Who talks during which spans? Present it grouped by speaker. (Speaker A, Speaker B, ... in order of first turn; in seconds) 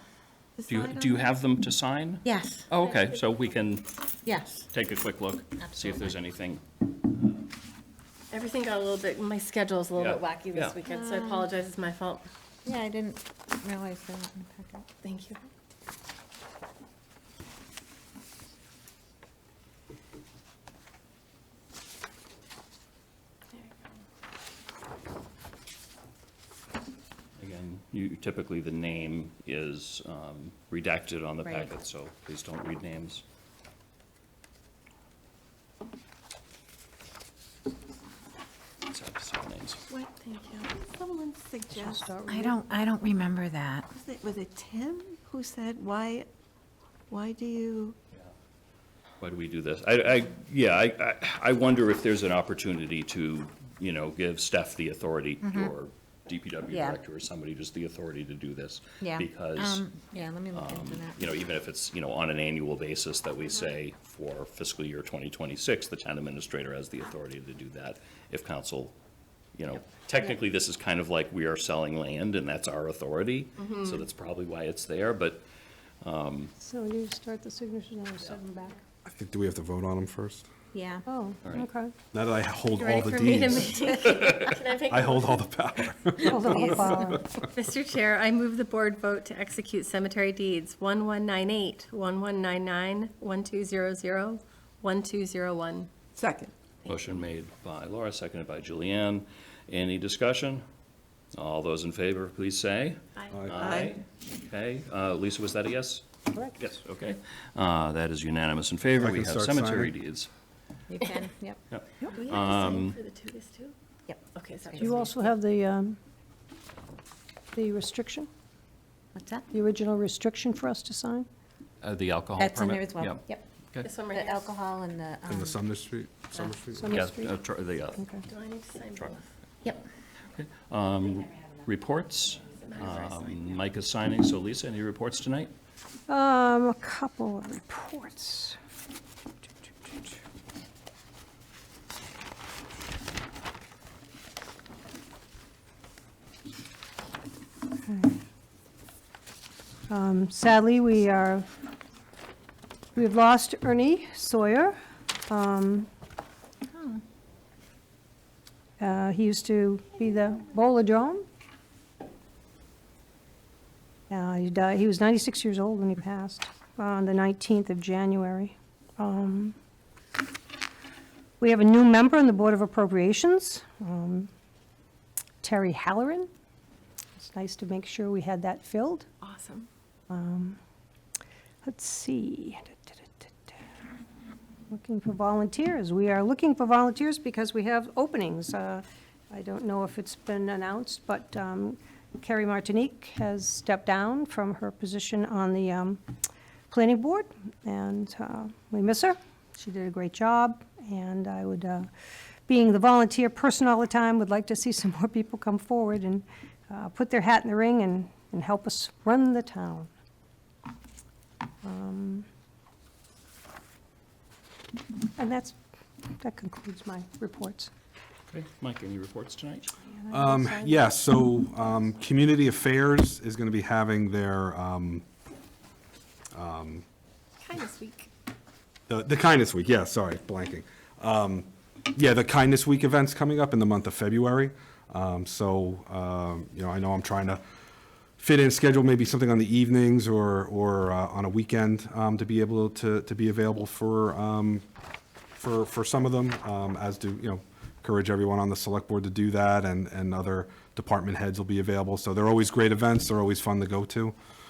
Speaker A: 0.6-1.3, 39.9-42.1, 43.9-46.3, 47.1-48.0, 96.1-96.5, 103.6-103.9
Speaker B: 0.7-4.1, 4.7-7.5, 9.9-10.8, 27.4-33.2, 38.9-39.8, 49.2-59.9, 60.5-68.9, 69.5-75.4, 76.0-76.5, 84.0-84.6, 96.8-100.6, 101.3-110.3, 111.7-113.0, 121.8-123.9, 126.9-128.1, 130.3-135.5, 218.3-219.7
Speaker C: 2.2-2.7, 4.2-4.7, 5.6-6.1, 10.8-11.5, 12.6-14.9, 31.4-31.7, 42.3-43.9, 55.4-55.7, 56.7-57.0, 59.0-61.3, 80.7-81.0, 86.4-87.2, 110.9-111.6, 114.1-114.9, 119.1-119.4, 122.4-123.5, 124.0-125.6
Speaker D: 2.8-3.2, 8.3-12.3, 15.0-15.4, 23.5-23.9, 39.9-40.6, 73.6-74.0, 82.7-85.5, 87.4-96.0, 96.8-97.2, 103.2-103.5, 112.1-113.7, 114.3-115.3, 123.8-124.6, 128.2-129.3, 132.5-133.6, 179.2-179.7, 227.4-228.1
Speaker E: 41.7-42.6, 76.6-78.8, 81.0-81.9, 86.2-87.3, 114.8-116.0, 117.5-118.3, 119.5-121.3, 126.8-127.3, 128.0-128.2, 136.1-138.6, 147.8-148.1, 149.9-151.5, 152.9-155.9, 158.8-161.2, 164.1-169.6, 171.4-174.3, 175.4-176.3, 177.2-179.1, 180.1-180.6, 181.6-183.5, 184.7-196.0, 196.7-201.9, 202.5-209.9, 211.6-212.2, 215.2-215.6, 216.1-217.7, 219.9-221.0
Speaker F: 79.0-80.5, 82.1-83.8, 84.9-87.5, 103.3-103.8, 109.0-109.9, 125.3-127.1, 220.1-225.0, 226.3-226.8, 228.9-237.4, 238.2-244.6, 245.4-254.2